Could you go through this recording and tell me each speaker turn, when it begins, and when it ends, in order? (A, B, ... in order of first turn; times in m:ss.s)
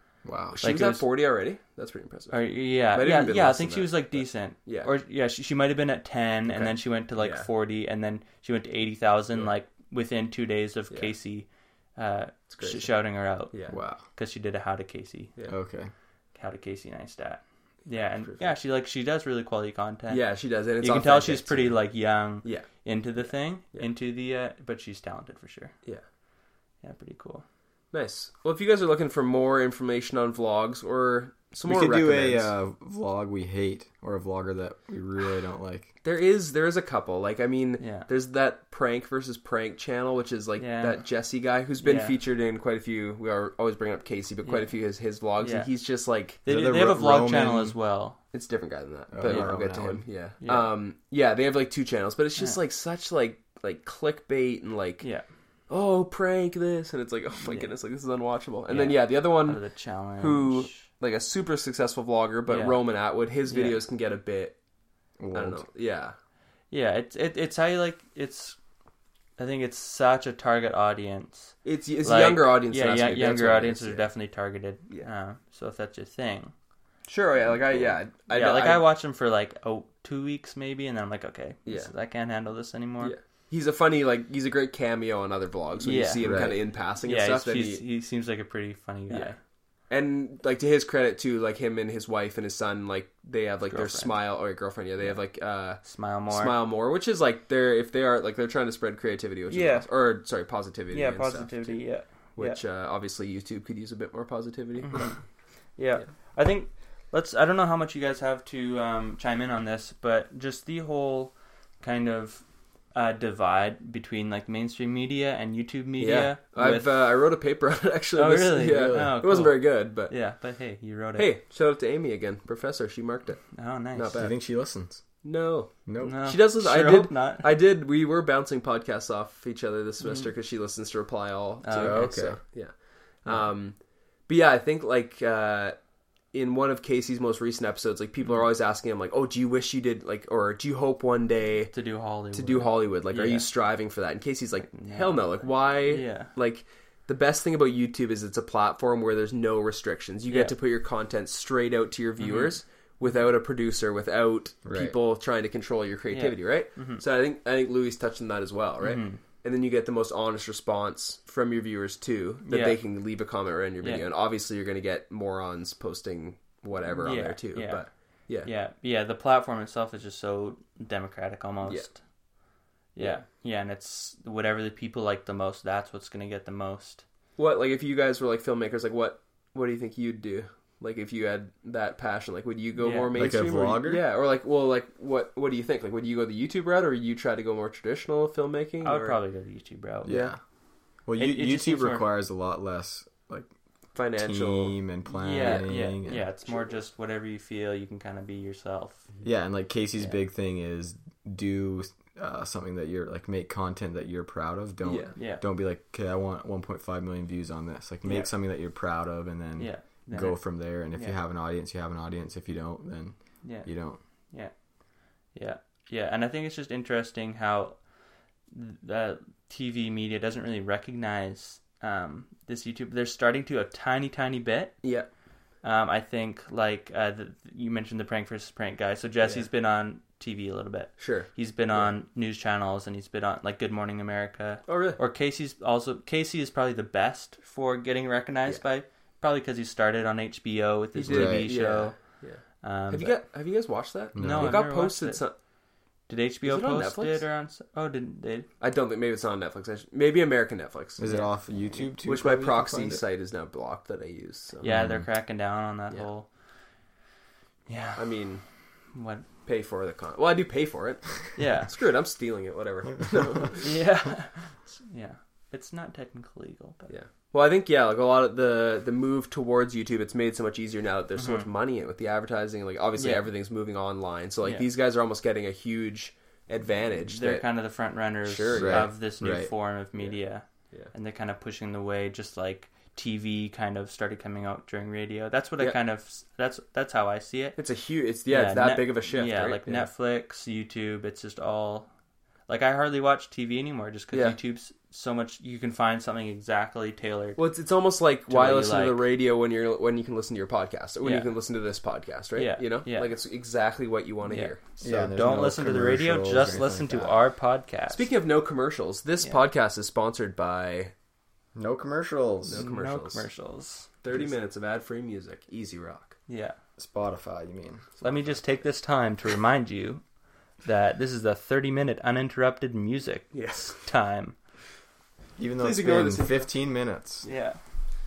0:00.2-0:00.6 A
0:00.6-0:04.9 B
0:00.6-0:01.0 C
0:02.3-0:13.5 C
0:06.5-0:07.5 B
0:12.5-0:12.9 B
0:13.5-0:13.8 B
0:13.7-0:14.0 A
0:14.1-0:15.3 C
0:15.5-0:15.9 A
0:16.3-0:20.2 C
0:17.9-0:18.6 B
0:20.1-0:21.8 B
0:20.8-0:25.7 C
0:22.4-0:22.7 B
0:26.8-0:27.4 C
0:27.9-0:32.5 B
0:31.6-0:35.9 A
0:36.0-0:46.4 B
0:37.8-0:38.1 C
0:40.6-0:41.0 C
0:41.8-0:42.2 C
0:45.4-0:45.7 C
0:46.4-0:48.2 C
0:46.4-0:47.7 A
0:48.3-0:55.0 B
0:49.1-0:50.0 A
0:49.2-0:49.5 C
0:50.4-0:50.7 C
0:55.0-0:55.2 C
0:55.7-0:59.6 B
0:57.4-0:57.7 C
0:58.7-1:00.8 C
1:00.2-1:04.5 B
1:02.5-1:02.8 C
1:03.5-1:03.8 C
1:05.2-1:05.6 A
1:05.3-1:06.1 B
1:06.7-1:08.6 C
1:09.4-1:16.5 C
1:11.6-1:14.1 B
1:17.1-1:18.9 B
1:18.3-1:23.1 C
1:21.6-1:21.9 B
1:23.0-1:27.8 B
1:25.8-1:26.3 C
1:26.2-1:26.6 A
1:27.0-1:29.4 C
1:29.1-1:29.4 B
1:29.9-1:41.8 B
1:33.7-1:34.1 C
1:35.8-1:36.5 C
1:39.5-1:39.9 C
1:40.9-1:42.6 C
1:42.4-1:45.1 B
1:44.8-1:45.2 C
1:45.8-1:56.9 C
1:56.0-2:00.1 B
1:58.2-2:01.3 C
1:58.7-1:59.1 A
2:01.2-2:04.3 B
2:03.5-2:04.2 C
2:04.1-2:05.0 A
2:05.2-2:13.7 B
2:05.9-2:06.2 A
2:06.0-2:07.5 C
2:10.0-2:10.3 C
2:11.6-2:12.1 C
2:11.8-2:12.4 A
2:14.3-2:15.8 B
2:16.3-2:21.7 B
2:21.7-2:23.5 C
2:22.3-2:48.5 B
2:24.7-2:26.3 C
2:30.3-2:30.6 C
2:32.2-2:32.5 C
2:34.6-2:34.9 A
2:36.1-2:37.0 C
2:38.8-2:39.2 C
2:42.5-2:42.8 C
2:47.0-2:47.8 C
2:48.4-2:52.0 C
2:53.0-2:57.0 C
2:57.4-3:09.2 B
3:02.8-3:03.4 C
3:03.1-3:04.0 A
3:08.8-3:10.1 C
3:10.0-3:10.4 A
3:10.0-3:10.3 B
3:11.0-3:13.5 A
3:11.2-3:12.1 C
3:13.9-3:14.8 B
3:14.2-3:16.2 A
3:15.1-3:19.1 C
3:15.4-3:15.7 B
3:19.2-3:34.0 A
3:24.8-3:25.1 B
3:25.1-3:25.4 C
3:28.0-3:28.3 C
3:29.6-3:31.2 C
3:35.3-3:37.8 C
3:38.5-3:44.7 C
3:44.8-3:45.1 B
3:45.6-4:02.0 C
3:49.2-3:49.5 B
3:51.0-3:51.9 B
3:54.7-3:55.0 B
4:00.9-4:05.3 B
4:01.1-4:01.5 A
4:02.6-4:03.2 C
4:04.1-4:04.6 A
4:04.2-4:05.2 C
4:06.1-4:08.5 C
4:06.4-4:07.2 B
4:08.6-4:11.1 B
4:11.0-4:13.0 A
4:12.0-4:14.7 B
4:14.6-4:16.3 C
4:14.7-4:15.1 A
4:17.7-4:18.0 C
4:18.0-4:18.4 B
4:18.9-4:19.3 C
4:19.4-4:23.8 B
4:21.4-4:21.7 C
4:23.6-4:26.9 C
4:26.9-4:37.4 B
4:31.2-4:31.5 C
4:33.0-4:33.2 C
4:34.4-4:34.7 C
4:37.1-4:47.6 C
4:38.2-4:38.9 B
4:38.5-4:39.5 A
4:47.6-4:49.9 B
4:48.3-4:51.9 C
4:52.5-4:57.4 C
4:54.1-4:54.4 B
4:57.4-5:05.3 B
4:58.3-4:59.0 C
5:01.0-5:01.3 C
5:02.3-5:03.1 C
5:04.2-5:08.0 C
5:04.8-5:07.1 A
5:07.9-5:10.9 B
5:11.5-5:12.6 A
5:12.5-5:13.2 B
5:12.6-5:14.3 C
5:14.0-5:16.1 B
5:16.3-5:16.6 C
5:16.8-5:18.0 A
5:18.0-5:20.0 C
5:20.6-5:24.4 C
5:23.3-5:23.8 B
5:25.4-5:27.2 A
5:25.6-5:26.5 B
5:27.2-5:27.6 C